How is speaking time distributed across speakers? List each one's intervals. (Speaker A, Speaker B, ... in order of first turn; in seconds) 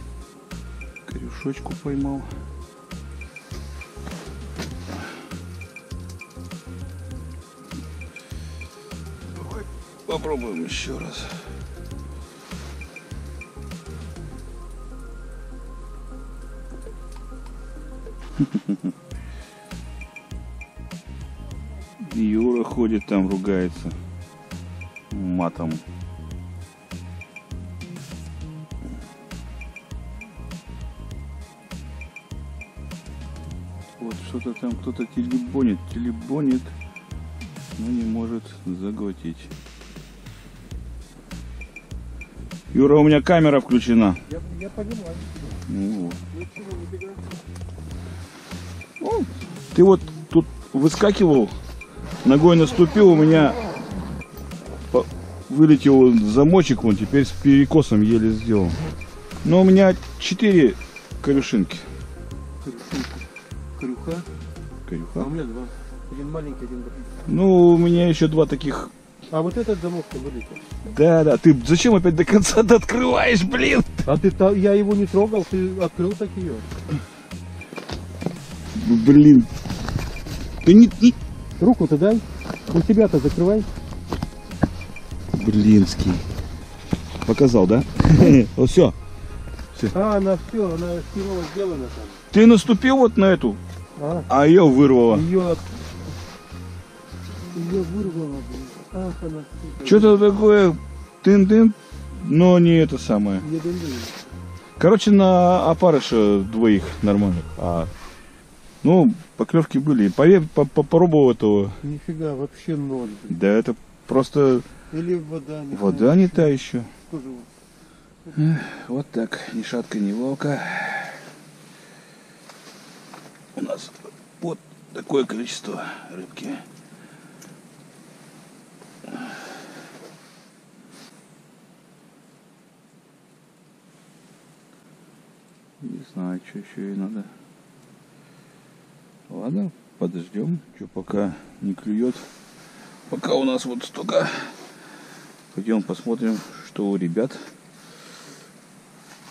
Speaker A: 1.1-2.3, 9.3-11.5, 18.4-18.8, 22.0-24.0, 25.1-25.8, 34.0-36.7, 37.8-39.5, 42.7-44.2, 45.7-46.2, 49.0-51.6, 52.2-53.6, 54.9-58.8, 59.4-61.9, 64.9-65.3, 67.3-68.9, 70.8-74.1, 78.7-79.5, 80.6-81.2, 85.3-86.3, 87.2-89.0, 92.3-93.6, 94.3-95.3, 99.8-103.5, 104.8-107.9, 108.8-111.8, 113.3-114.7, 115.7-116.9, 118.3-121.3, 123.5-126.7, 135.8-137.3, 139.3-142.3, 143.1-144.6, 145.5-147.5
Speaker B: 44.3-45.6, 46.3-47.2, 62.6-64.3, 65.2-67.1, 69.3-70.6, 74.1-76.7, 81.6-83.7, 89.9-92.2, 94.0-94.3, 95.1-95.7, 97.5-100.2, 103.4-104.2, 111.8-113.4, 114.9-116.5, 117.1-117.5